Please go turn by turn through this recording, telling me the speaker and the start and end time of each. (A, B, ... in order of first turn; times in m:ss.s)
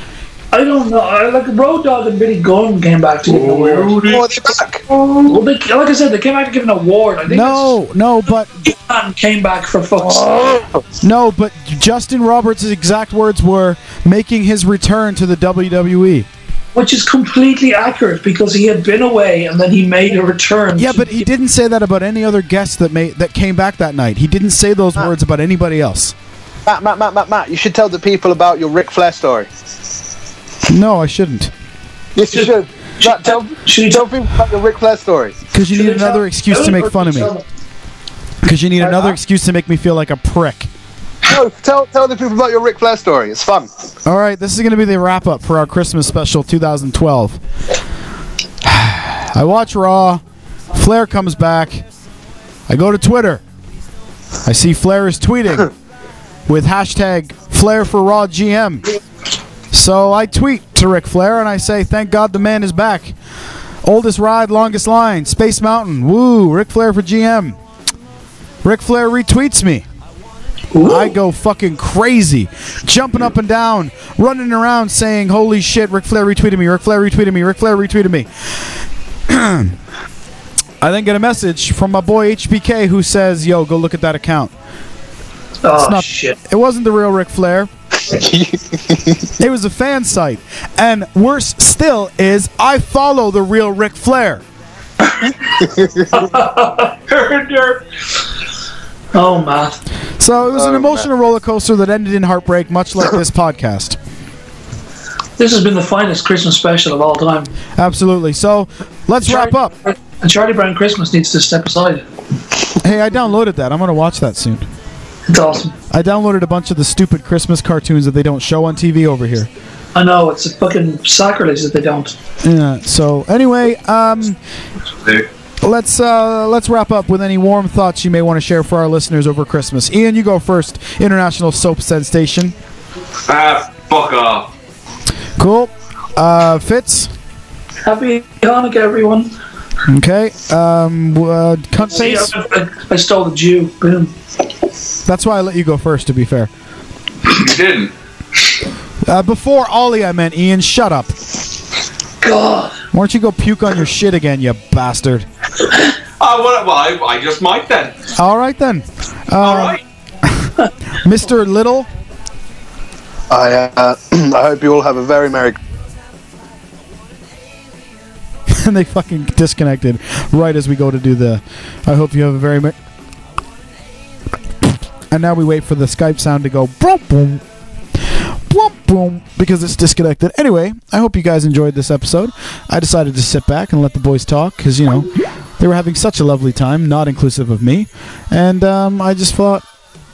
0:00.5-0:04.0 A
0:03.2-0:04.2 B
0:04.0-0:04.8 C
0:04.9-0:05.2 B
0:05.2-0:07.8 A
0:07.2-0:08.7 D
0:08.6-0:10.4 A
0:11.0-0:16.3 D
0:16.7-0:21.3 A
0:20.8-0:26.1 D
0:26.6-0:29.5 C
0:30.7-0:31.5 D
0:32.1-0:35.4 C
0:32.3-0:34.1 A
0:35.5-0:37.3 D
0:35.7-0:37.4 A
0:38.4-0:40.7 D
0:41.2-0:43.7 C
0:44.0-0:47.4 D
0:48.6-0:50.2 D
0:50.7-0:51.8 D
0:52.7-0:53.4 D
0:54.4-0:55.7 D
0:56.5-0:58.9 D
0:59.7-1:03.1 D
1:03.8-1:07.6 D
1:08.6-1:09.8 D
1:10.7-1:11.1 A
1:10.8-1:18.3 D
1:19.3-1:19.8 D
1:20.8-1:24.5 D
1:25.6-1:26.4 A
1:25.7-1:27.7 D
1:28.1-1:29.3 C
1:29.4-1:34.4 D
1:35.6-1:36.1 C
1:36.1-1:37.8 A
1:39.1-1:39.8 A
1:40.2-1:44.0 D
1:40.5-1:41.0 C
1:45.4-1:47.5 A
1:47.8-1:49.7 D
1:49.2-1:52.0 A
1:52.8-1:54.7 D
1:55.3-1:55.7 A
1:55.9-1:59.5 D
1:59.9-2:02.1 A
2:02.4-2:04.4 D
2:05.6-2:12.5 D
2:13.2-2:14.5 B
2:15.4-2:17.1 D
2:17.8-2:19.3 A
2:19.9-2:22.3 D
2:21.9-2:24.1 A
2:25.0-2:26.5 D
2:27.3-2:27.9 B
2:29.0-2:31.3 D
2:32.2-2:32.8 A
2:32.9-2:35.2 D
2:36.2-2:38.0 B
2:38.2-2:41.9 D
2:39.4-2:39.8 B
2:43.3-2:45.6 C
2:48.5-2:52.7 D
2:55.1-2:57.4 D
2:58.5-3:09.6 D